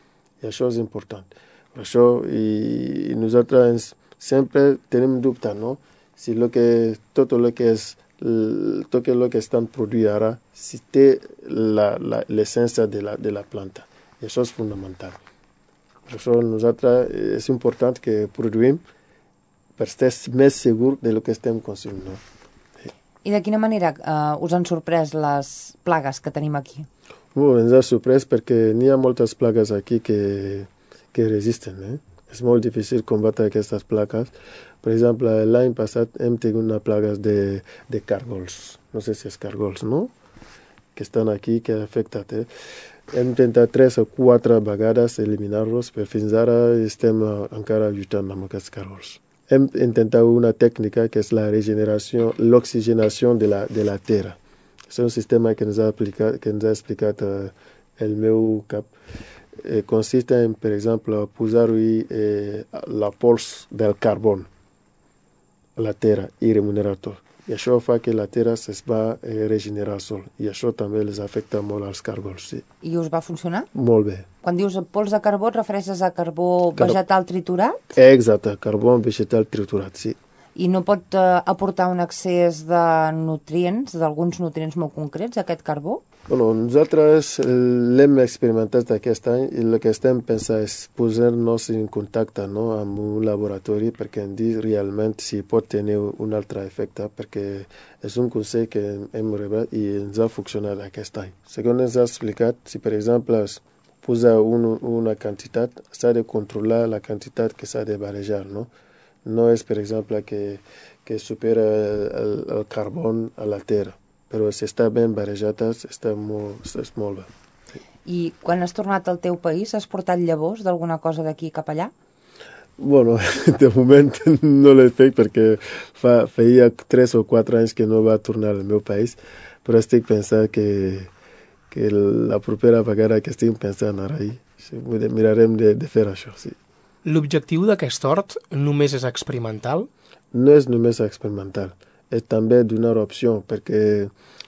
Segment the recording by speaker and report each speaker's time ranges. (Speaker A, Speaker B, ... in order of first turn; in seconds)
Speaker A: 0.4-15.2, 16.1-18.8, 19.8-22.2, 27.3-40.1, 40.9-42.5, 43.1-54.4, 54.9-58.9, 59.6-64.5, 65.8-72.6, 73.7-74.3, 77.9-80.2, 86.3-108.7, 109.2-117.3, 122.8-131.1, 131.7-136.6, 140.3-144.1
Speaker B: 23.2-26.9, 72.8-73.7, 74.4-77.9, 80.5-86.0, 118.0-121.9
Speaker C: 137.0-139.9